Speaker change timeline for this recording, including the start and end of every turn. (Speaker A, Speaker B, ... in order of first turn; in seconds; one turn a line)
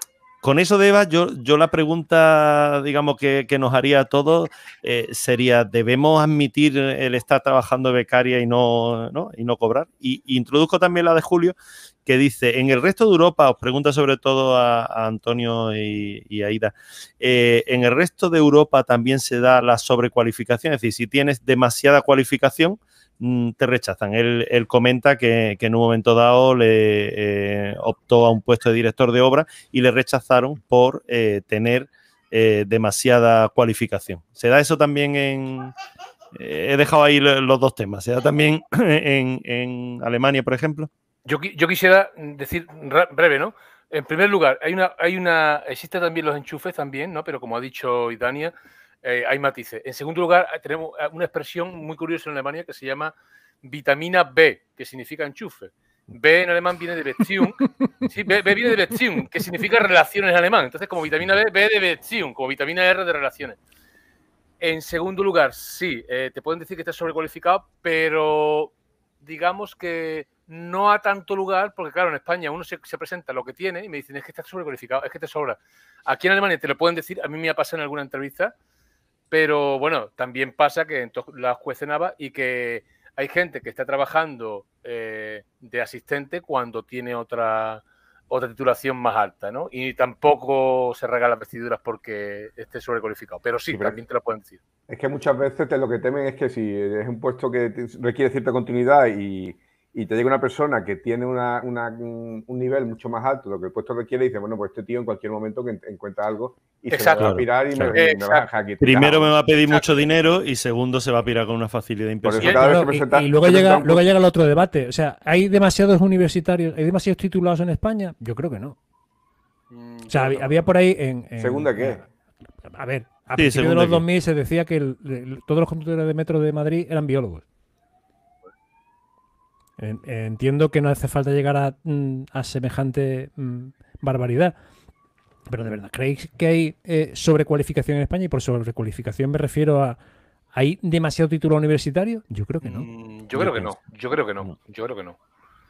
Speaker A: 0.4-35.7
Speaker A: 36.3-40.9
Speaker B: 41.2-63.6
Speaker B: 64.6-78.5
Speaker B: 79.3-94.6
Speaker C: 93.7-94.0
Speaker C: 94.9-109.3
Speaker B: 106.9-108.4
Speaker A: 107.2-108.0
Speaker A: 108.8-112.6
Speaker B: 109.7-110.1
Speaker C: 112.2-114.1
Speaker D: 112.4-118.8
Speaker B: 119.7-120.7
Speaker D: 120.1-122.0
Speaker C: 121.4-122.0
Speaker D: 122.6-127.4
Speaker A: 123.4-124.0
Speaker D: 129.8-134.5
Speaker D: 135.5-140.0
Speaker D: 140.5-142.9
Speaker B: 142.6-145.2
Speaker A: 143.3-143.7